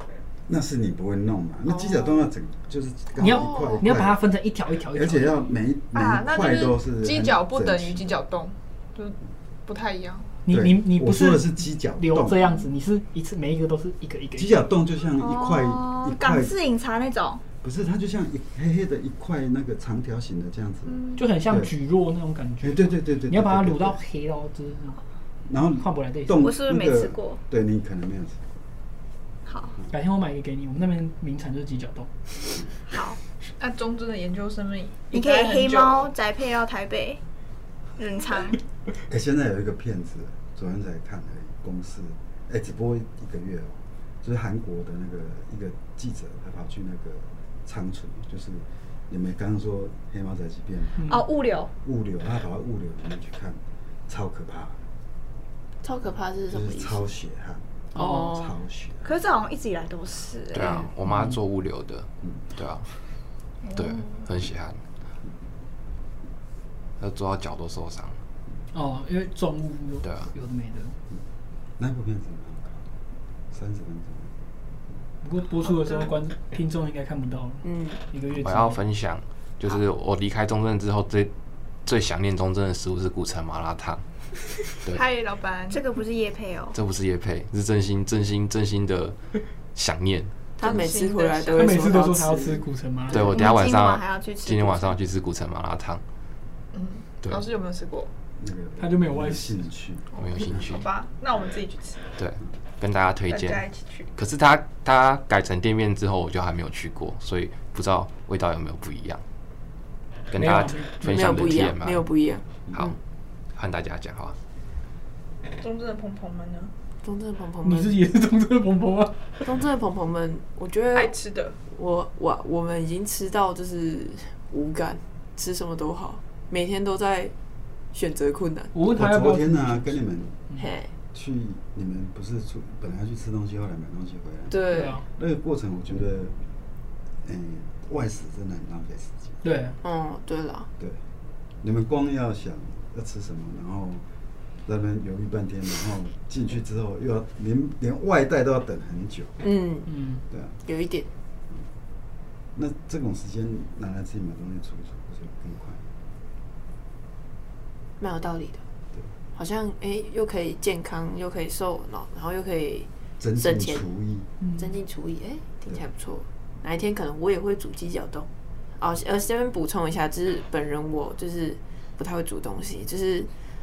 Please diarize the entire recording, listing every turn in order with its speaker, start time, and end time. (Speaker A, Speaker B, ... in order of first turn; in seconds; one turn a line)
Speaker A: 0.5-4.2
Speaker B: 1.7-2.2
Speaker C: 3.2-5.4
Speaker B: 3.2-3.9
Speaker A: 4.9-8.2
Speaker D: 5.9-10.4
Speaker C: 10.5-14.6
Speaker A: 10.5-12.6
Speaker A: 14.4-16.6
Speaker E: 15.2-17.4
Speaker A: 17.6-21.7
Speaker D: 20.9-21.2
Speaker C: 21.2-25.0
Speaker A: 22.6-24.0
Speaker A: 25.5-28.4
Speaker C: 25.8-26.5
Speaker E: 26.4-27.4
Speaker E: 29.5-29.8
Speaker C: 29.9-32.5
Speaker E: 32.9-33.2
Speaker D: 33.6-36.1
Speaker E: 35.1-37.2
Speaker E: 38.0-38.6
Speaker A: 39.1-51.2
Speaker C: 51.0-51.3
Speaker E: 51.0-51.7
Speaker A: 51.8-54.8
Speaker B: 55.8-57.1
Speaker A: 56.5-59.1
Speaker B: 57.9-58.5
Speaker C: 58.0-58.3
Speaker E: 59.0-60.9
Speaker F: 60.5-62.9
Speaker C: 61.0-61.4
Speaker E: 63.6-64.1
Speaker F: 63.7-64.8
Speaker F: 67.0-68.2
Speaker C: 68.7-70.9
Speaker F: 70.0-70.3
Speaker A: 71.8-72.8
Speaker A: 73.5-74.3
Speaker C: 75.2-78.8
Speaker D: 75.8-76.1
Speaker B: 77.6-78.0
Speaker F: 78.3-81.3
Speaker F: 81.8-84.0
Speaker F: 84.7-85.0
Speaker D: 84.9-85.8
Speaker E: 85.7-86.8
Speaker F: 86.7-89.2
Speaker F: 89.7-90.3
Speaker B: 90.6-92.6
Speaker D: 90.6-92.1
Speaker C: 91.5-93.4
Speaker F: 93.1-96.0
Speaker E: 93.2-95.0
Speaker D: 96.7-98.1
Speaker A: 98.4-100.7
Speaker C: 98.8-99.6
Speaker F: 100.2-100.9
Speaker D: 100.2-102.1
Speaker F: 102.2-103.6
Speaker D: 103.3-104.1
Speaker F: 104.2-109.2
Speaker F: 110.3-112.1
Speaker C: 110.3-111.7
Speaker B: 111.1-113.0
Speaker F: 113.5-114.4
Speaker D: 115.6-116.7
Speaker B: 117.0-118.0
Speaker C: 117.6-119.2
Speaker B: 119.4-121.1
Speaker D: 120.9-121.6
Speaker B: 121.6-127.3
Speaker B: 127.9-128.7
Speaker C: 128.7-130.0
Speaker A: 128.9-130.4
Speaker B: 130.6-130.9
Speaker A: 131.1-136.3
Speaker B: 134.5-135.0
Speaker C: 134.7-135.1
Speaker A: 137.2-139.4
Speaker C: 139.4-139.8
Speaker B: 139.8-140.7
Speaker A: 141.6-144.0
Speaker A: 144.7-149.4
Speaker B: 149.4-149.9
Speaker C: 149.9-150.2
Speaker B: 150.6-151.1
Speaker A: 152.6-155.8
Speaker B: 158.0-158.6
Speaker B: 159.3-163.9
Speaker A: 163.2-164.3
Speaker C: 164.4-164.7
Speaker B: 164.6-173.3